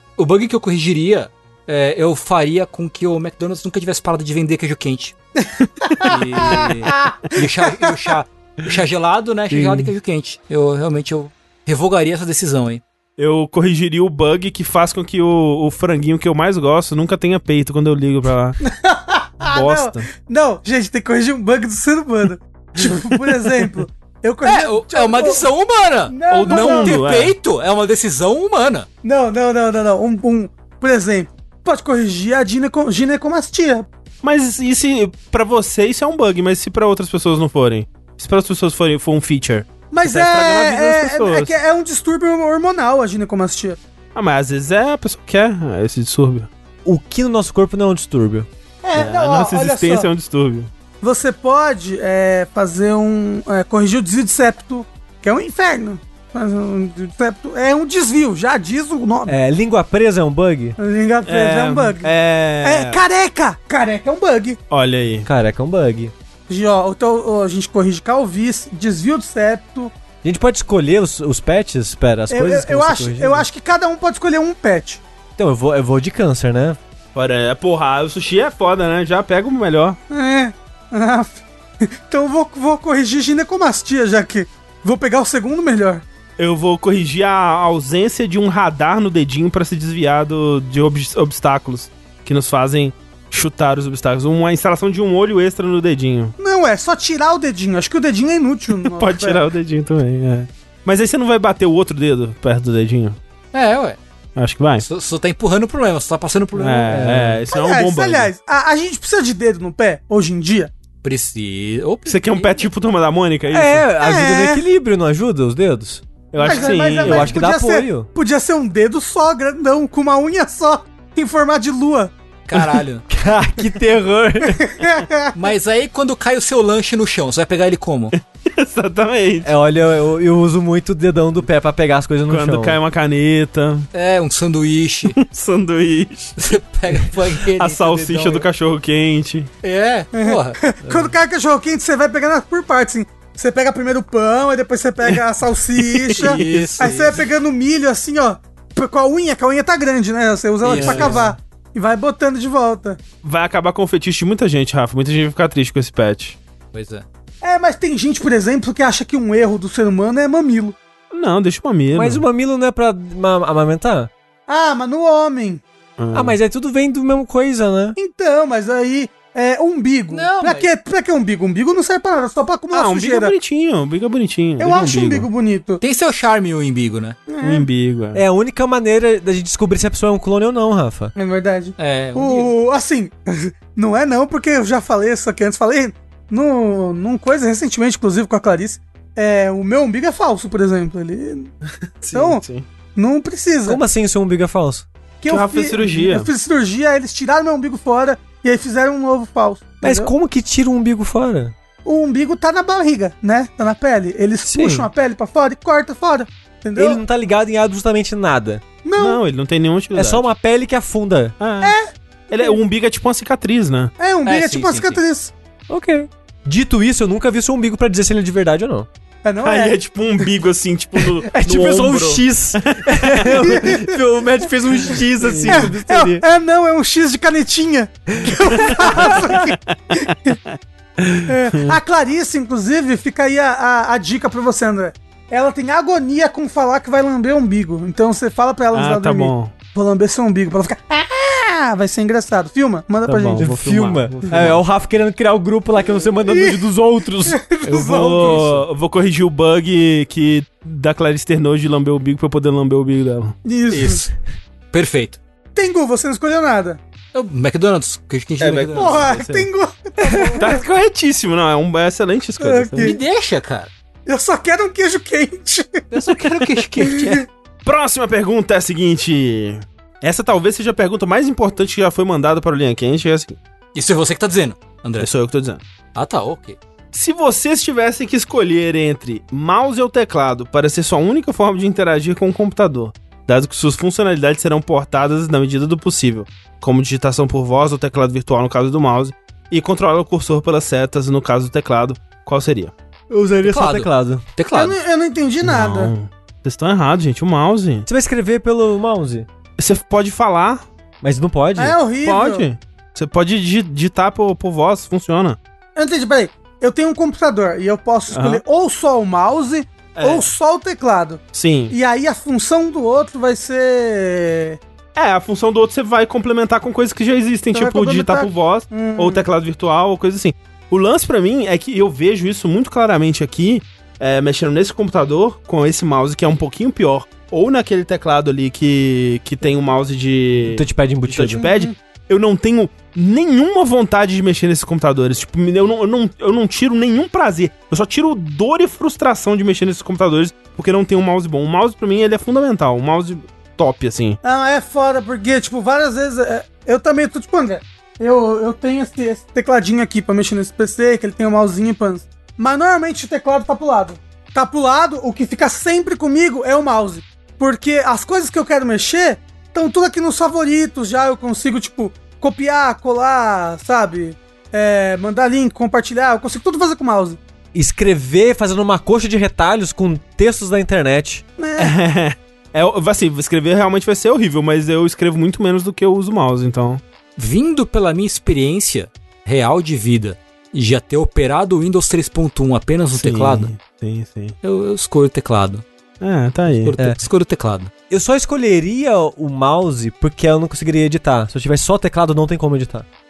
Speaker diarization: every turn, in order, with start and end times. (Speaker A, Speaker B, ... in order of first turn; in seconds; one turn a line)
Speaker A: 0.2-5.1
Speaker B: 5.8-7.9
Speaker A: 6.0-12.8
Speaker C: 6.0-6.5
Speaker D: 9.5-9.9
Speaker C: 13.2-18.6
Speaker B: 18.6-25.4
Speaker C: 19.4-20.1
Speaker A: 24.4-28.9
Speaker B: 26.1-27.0
Speaker C: 26.3-27.3
Speaker B: 29.0-33.9
Speaker C: 34.2-41.5
Speaker B: 39.9-43.8
Speaker C: 44.1-46.5
Speaker D: 46.8-48.5
Speaker B: 48.8-50.1
Speaker C: 49.0-50.7
Speaker B: 51.0-59.4
Speaker D: 59.3-60.8
Speaker B: 60.8-62.1
Speaker C: 61.2-63.0
Speaker B: 62.6-64.6
Speaker C: 64.7-65.3
Speaker D: 65.2-66.1
Speaker B: 66.5-69.9
Speaker D: 70.2-73.5
Speaker B: 72.3-75.0
Speaker D: 75.4-76.8
Speaker C: 77.1-80.0
Speaker B: 80.1-86.0
Speaker C: 86.4-96.3
Speaker B: 96.4-99.4
Speaker C: 98.8-103.2
Speaker A: 103.5-104.0
Speaker C: 104.3-104.8
Speaker A: 104.8-107.0
Speaker C: 106.5-108.3
Speaker D: 106.9-107.4
Speaker B: 107.5-110.7
Speaker A: 111.0-112.7
Speaker C: 112.0-113.8
Speaker D: 113.5-116.0
Speaker B: 114.0-114.6
Speaker C: 116.3-117.4
Speaker B: 116.4-122.1
Speaker D: 116.7-118.1
Speaker A: 122.5-123.0
Speaker D: 123.1-124.7
Speaker B: 124.7-125.3
Speaker A: 125.3-128.1
Speaker C: 128.1-129.5
Speaker D: 129.4-132.8
Speaker C: 132.3-133.8
Speaker A: 133.9-135.2
Speaker C: 135.1-136.5
Speaker A: 136.4-138.4
Speaker C: 137.5-139.5
Speaker A: 139.6-140.6
Speaker B: 140.1-153.0
Speaker A: 146.1-147.2
Speaker C: 146.1-146.9
Speaker A: 150.6-151.3
Speaker C: 150.7-151.2
Speaker C: 153.2-156.4
Speaker A: 156.7-157.0
Speaker B: 157.4-160.7
Speaker C: 161.1-162.2
Speaker D: 161.9-164.1
Speaker B: 164.5-165.6
Speaker C: 166.0-166.4
Speaker D: 166.1-167.9
Speaker B: 167.9-173.3
Speaker A: 170.1-170.7
Speaker C: 172.7-175.3
Speaker B: 174.6-175.8
Speaker A: 175.8-177.2
Speaker B: 177.3-177.7
Speaker C: 177.4-178.2
Speaker D: 178.1-181.1
Speaker B: 181.2-191.5
Speaker A: 181.8-182.5
Speaker C: 192.0-192.7
Speaker B: 192.1-192.4
Speaker B: 192.9-193.8
Speaker D: 193.7-194.9
Speaker B: 195.2-200.1
Speaker C: 195.3-196.3
Speaker D: 199.8-201.5
Speaker B: 201.8-207.0
Speaker D: 204.5-204.8
Speaker D: 206.8-208.6
Speaker B: 208.8-209.2
Speaker C: 208.9-210.3
Speaker D: 209.9-211.3
Speaker C: 211.4-211.7
Speaker B: 211.6-212.6
Speaker C: 212.3-213.9
Speaker B: 214.0-215.3
Speaker A: 214.2-215.0
Speaker D: 215.7-218.9
Speaker B: 219.2-219.7
Speaker C: 219.4-223.6
Speaker D: 221.2-226.2
Speaker B: 223.4-223.9
Speaker C: 225.3-225.7
Speaker B: 225.4-230.4
Speaker D: 228.5-229.1
Speaker C: 228.8-231.8
Speaker B: 231.3-243.5
Speaker C: 238.7-239.5
Speaker C: 243.1-244.6
Speaker D: 243.4-247.4
Speaker B: 246.3-246.6
Speaker B: 247.2-248.4
Speaker C: 247.6-253.3
Speaker A: 248.1-248.6
Speaker B: 253.4-254.0
Speaker A: 253.7-254.1
Speaker A: 254.7-255.2
Speaker B: 255.5-256.8
Speaker A: 257.1-259.1
Speaker C: 258.4-259.5
Speaker B: 258.8-260.6
Speaker D: 260.1-260.3
Speaker C: 260.3-262.9
Speaker B: 262.4-263.0
Speaker A: 262.8-263.7
Speaker B: 264.1-265.8
Speaker A: 265.9-267.2
Speaker B: 266.8-267.2
Speaker C: 267.6-273.4
Speaker A: 273.7-275.1
Speaker C: 275.0-275.6
Speaker A: 275.9-276.6
Speaker C: 276.9-292.7
Speaker D: 293.1-294.2
Speaker A: 293.4-294.8
Speaker B: 294.5-295.9
Speaker C: 295.4-297.9
Speaker D: 297.9-299.3
Speaker C: 299.6-300.6
Speaker D: 301.0-301.8
Speaker B: 301.6-302.5
Speaker C: 302.0-305.4
Speaker B: 305.8-314.6
Speaker C: 308.1-308.4
Speaker C: 309.9-310.2
Speaker C: 311.3-311.7
Speaker C: 314.9-344.2
Speaker B: 317.5-319.2
Speaker D: 330.5-331.4
Speaker B: 331.4-331.7
Speaker B: 344.2-367.2
Speaker D: 367.5-371.2
Speaker B: 371.4-371.7
Speaker C: 371.6-376.8
Speaker A: 377.2-383.5
Speaker C: 382.9-384.3
Speaker A: 384.4-385.6
Speaker C: 386.0-386.7
Speaker A: 386.6-387.7
Speaker D: 387.9-392.9